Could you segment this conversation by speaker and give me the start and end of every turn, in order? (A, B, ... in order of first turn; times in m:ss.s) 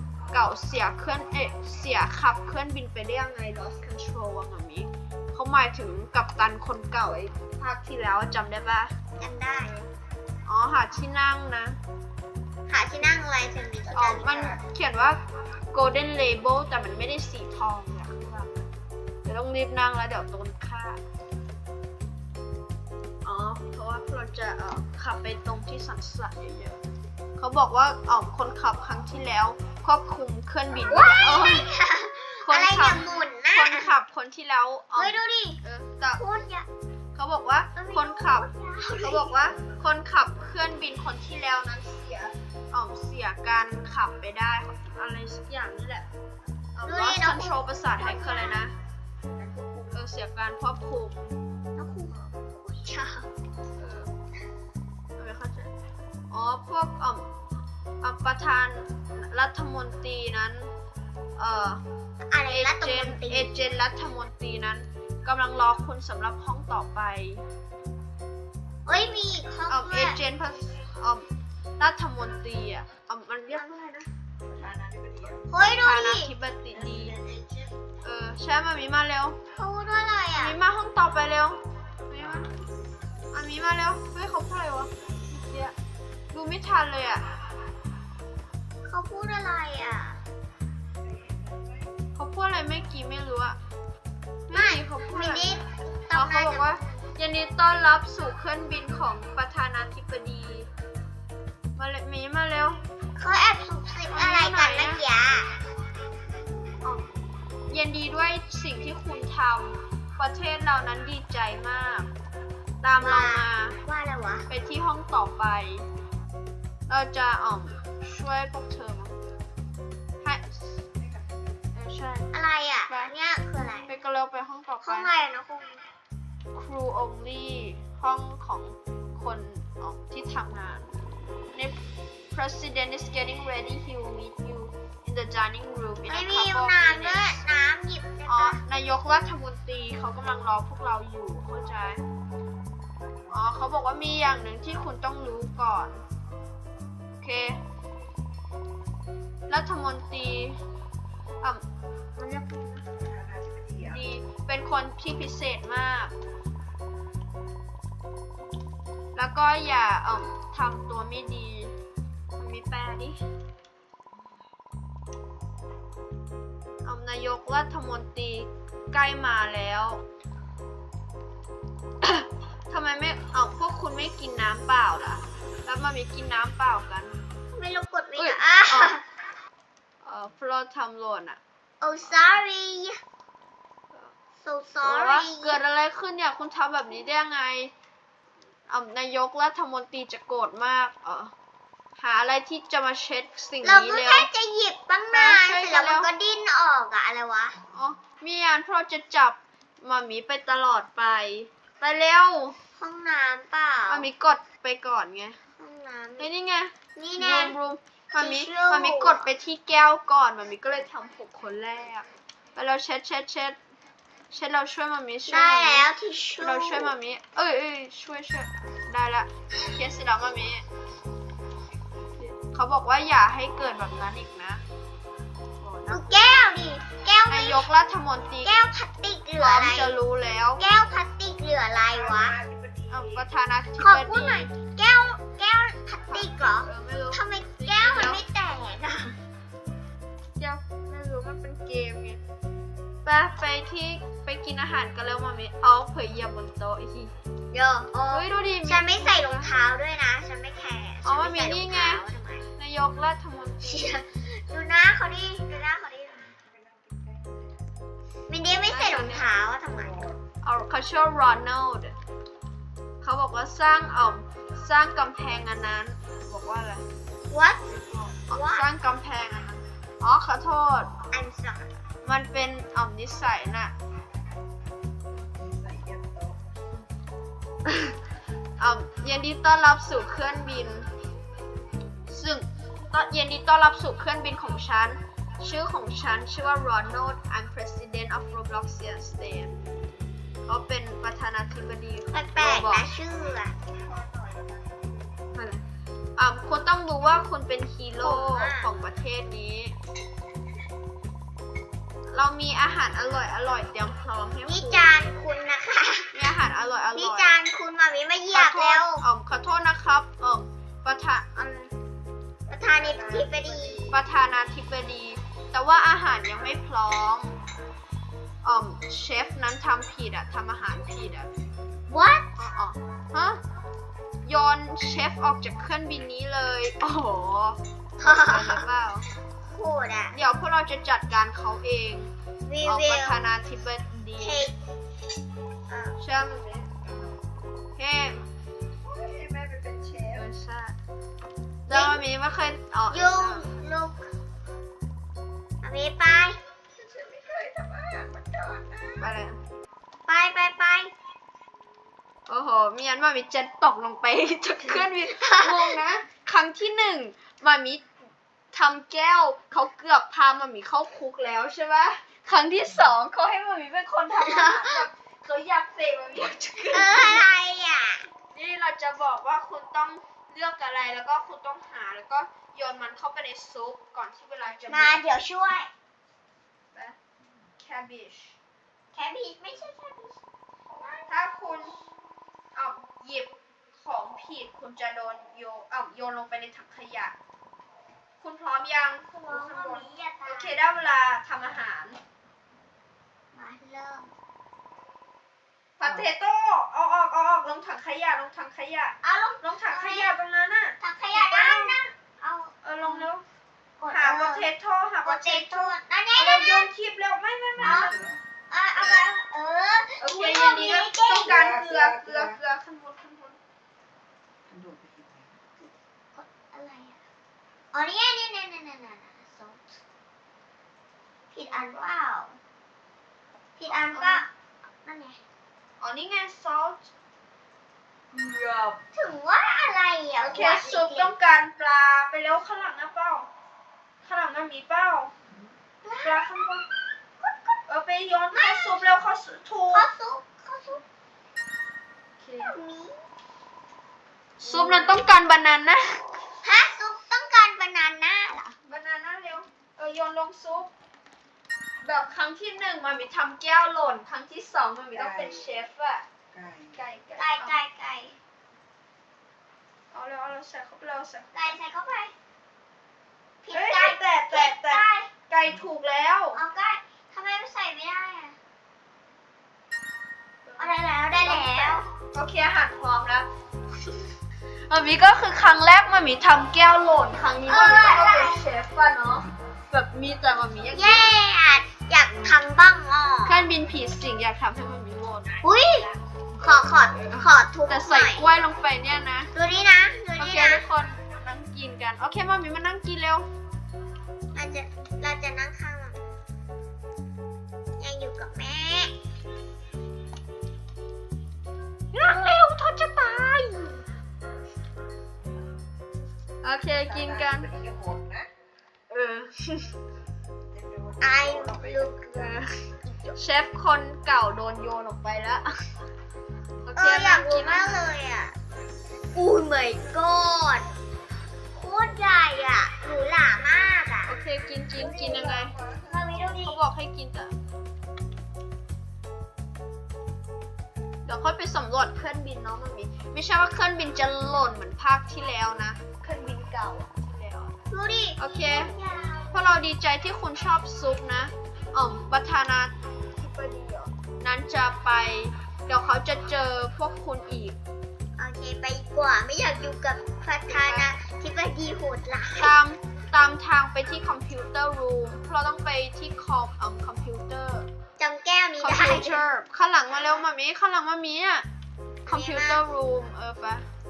0:00.3-0:08.9 A
0:09.2-0:09.8 B
0:10.4-0:11.8 A
0:12.7-0:14.6 B
0:13.9-0:15.2 A
0:15.7-0:18.6 A
0:19.2-0:21.0 A
0:23.2-0:26.8 A
0:27.4-0:31.7 A
0:30.9-0:33.9 B
0:32.4-0:36.2 A
0:35.0-0:35.6 B
0:36.1-0:36.7 B
0:37.1-0:38.5 A
0:37.7-0:39.3 B
0:39.0-0:46.1 A
0:46.8-0:48.7 A
0:46.8-0:48.7 B
0:49.3-0:50.0 C
0:49.9-0:51.3 A
0:51.8-0:53.3 B
0:53.8-0:54.1 A
0:55.2-0:55.7 A
0:56.3-0:57.3 A
0:58.0-1:00.7 A
1:01.4-1:01.8 A
1:02.3-1:03.6 B
1:02.5-1:07.4 A
1:08.8-1:10.2 B
1:09.7-1:11.3 A
1:11.8-1:13.6 A
1:13.5-1:14.1 B
1:14.4-1:15.5 C
1:15.5-1:16.3 B
1:15.7-1:17.2 A
1:16.7-1:17.7 C
1:18.0-1:19.4 A
1:19.6-1:20.6 B
1:20.4-1:22.6 A
1:23.3-1:25.7 A
1:26.3-1:27.2 A
1:28.8-1:30.2 B
1:31.0-1:31.9 C
1:32.2-1:33.6 A
1:34.5-1:35.6 A
1:34.5-1:37.1 B
1:36.1-1:40.7 A
1:41.8-1:42.8 A
1:43.2-1:45.6 B
1:44.1-1:45.0 A
1:47.7-1:52.1 A
1:52.8-1:53.8 A
1:53.0-1:54.5 B
1:54.5-1:55.9 A
1:56.9-1:59.2 A
2:00.2-2:00.8 A
2:01.0-2:01.6 C
2:01.7-2:02.3 A
2:02.3-2:03.9 B
2:02.9-2:03.1 A
2:03.9-2:05.1 A
2:04.8-2:05.8 B
2:06.5-2:11.8 A
2:12.3-2:17.4 A
2:16.1-2:18.6 B
2:18.3-2:22.0 A
2:23.3-2:26.0 A
2:27.2-2:27.6 A
2:29.5-2:30.6 A
2:32.2-2:32.8 A
2:32.9-2:34.0 C
2:33.8-2:36.1 A
2:39.1-2:41.7 A
2:42.4-2:43.2 A
2:46.8-2:50.0 A
2:52.0-2:57.2 A
2:57.5-2:59.0 B
2:58.2-2:59.0 A
3:00.0-3:01.4 A
3:01.8-3:03.0 B
3:04.4-3:05.6 B
3:04.8-3:07.7 A
3:08.7-3:11.3 A
3:12.0-3:14.3 A
3:13.6-3:17.6 B
3:15.1-3:16.1 A
3:17.7-3:22.6 A
3:22.8-3:24.1 B
3:23.9-3:25.4 A
3:25.6-3:26.3 B
3:26.2-3:33.6 A
3:27.0-3:27.6 B
3:28.1-3:29.3 B
3:34.3-3:35.9 A
3:35.3-3:36.9 B
3:36.4-3:40.6 A
3:42.2-3:44.6 A
3:45.6-3:46.3 A
3:45.9-3:47.6 B
3:47.3-3:48.6 A
3:48.4-3:49.9 B
3:49.4-3:50.6 A
3:50.6-3:52.4 B
3:51.9-3:53.2 C
3:52.9-3:54.5 A
3:53.8-3:59.2 B
3:56.1-3:58.2 A
4:00.4-4:02.2 A
4:03.0-4:09.5 A
4:07.7-4:12.4 B
4:11.0-4:12.0 A
4:12.6-4:13.9 A
4:13.6-4:16.4 B
4:16.4-4:17.7 C
4:18.3-4:20.0 B
4:18.6-4:19.3 A
4:19.7-4:20.2 C
4:20.4-4:22.0 A
4:23.0-4:26.8 A
4:27.3-4:28.7 B
4:28.1-4:31.0 A
4:31.1-4:31.7 B
4:32.0-4:33.7 A
4:35.2-4:36.4 C
4:38.6-4:40.9 A
4:42.1-4:49.6 A
4:50.5-4:52.9 A
4:52.1-4:53.6 B
4:53.7-4:55.3 C
4:55.3-4:55.6 A
4:56.2-4:59.7 A
4:58.0-4:58.7 B
5:02.1-5:04.9 A
5:04.4-5:06.2 B
5:06.1-5:07.4 A
5:06.9-5:09.0 B
5:08.3-5:11.7 A
5:12.5-5:14.0 C
5:12.5-5:14.0 B
5:13.9-5:17.4 A
5:18.4-5:21.3 A
5:21.9-5:22.4 B
5:22.4-5:23.4 A
5:24.2-5:29.1 A
5:28.0-5:28.6 B
5:29.4-5:30.2 B
5:30.1-5:34.5 A
5:32.4-5:33.2 B
5:34.2-5:34.5 B
5:35.7-5:36.0 B
5:36.0-5:36.7 A
5:36.8-5:37.2 C
5:37.8-5:38.2 A
5:38.8-5:40.3 C
5:40.1-5:40.8 A
5:41.6-5:43.6 A
5:41.7-5:42.0 B
5:42.9-5:44.1 B
5:45.6-5:46.4 B
5:46.7-5:49.1 C
5:49.0-5:49.4 A
5:50.0-5:50.9 B
5:52.3-5:57.9 A
5:54.6-5:55.8 B
5:58.5-6:07.3 A
6:04.1-6:04.9 B
6:06.7-6:08.1 B
6:08.3-6:15.0 A
6:14.7-6:15.7 B
6:17.6-6:18.4 A
6:18.9-6:20.2 B
6:20.7-6:21.6 B
6:21.1-6:21.7 A
6:22.5-6:27.1 A
6:28.2-6:32.0 A
6:29.1-6:30.5 B
6:33.3-6:34.1 B
6:35.8-6:41.8 A
6:39.0-6:40.1 B
6:40.8-6:43.1 B
6:42.6-6:43.2 A
6:43.8-6:44.5 B
6:43.9-6:48.0 A
6:45.0-6:46.7 B
6:47.6-6:48.2 C
6:47.6-6:47.9 B
6:48.5-6:51.4 B
6:50.0-6:53.4 A
6:51.2-6:52.4 C
6:54.5-6:55.4 C
6:55.6-6:57.0 B
6:57.7-6:59.8 B
7:01.3-7:02.4 B
7:01.4-7:01.9 A
7:03.6-7:04.3 B
7:03.7-7:04.3 A
7:04.8-7:05.2 B
7:05.8-7:06.9 A
7:08.1-7:08.8 A
7:08.9-7:11.1 B
7:10.2-7:13.3 A
7:14.0-7:15.1 A
7:15.8-7:16.6 B
7:16.0-7:16.6 A
7:17.2-7:17.6 B
7:17.7-7:19.9 A
7:18.3-7:18.8 B
7:19.7-7:20.8 B
7:22.2-7:22.5 A
7:22.4-7:23.0 B
7:24.4-7:26.0 A
7:24.4-7:25.2 B
7:26.4-7:28.5 B
7:28.6-7:30.7 A
7:31.8-7:36.0 A
7:34.9-7:35.6 C
7:36.3-7:36.8 C
7:36.7-7:37.6 A
7:37.2-7:38.2 B
7:39.9-7:41.3 A
7:41.3-7:42.1 B
7:43.4-7:45.1 B
7:43.5-7:46.4 A
7:46.3-7:48.4 B
7:50.4-7:53.3 A
7:50.6-7:51.8 B
7:53.8-7:54.1 A
7:54.7-8:01.1 A
7:57.4-7:58.4 B
8:00.7-8:03.4 B
8:03.2-8:09.3 A
8:05.4-8:05.9 B
8:06.4-8:08.3 B
8:09.3-8:10.6 B
8:10.2-8:13.3 A
8:14.3-8:16.2 B
8:17.8-8:18.9 B
8:21.9-8:23.8 A
8:26.4-8:27.5 A
8:26.7-8:28.3 C
8:28.9-8:29.7 A
8:30.5-8:32.4 C
8:31.0-8:32.3 B
8:32.1-8:32.5 A
8:33.2-8:35.5 A
8:36.6-8:37.9 A
8:36.7-8:38.4 B
8:39.1-8:40.7 B
8:41.5-8:44.2 B
8:44.1-8:45.5 A
8:44.7-8:46.3 C
8:45.9-8:46.6 B
8:46.4-8:47.4 A
8:51.0-8:57.6 A
8:57.7-8:59.6 B
8:58.2-8:58.7 A
8:59.3-9:07.6 A
9:08.2-9:12.5 B
9:10.5-9:10.9 A
9:12.4-9:17.7 A
9:18.0-9:19.2 B
9:18.6-9:21.4 A
9:22.0-9:22.6 B
9:22.0-9:23.6 A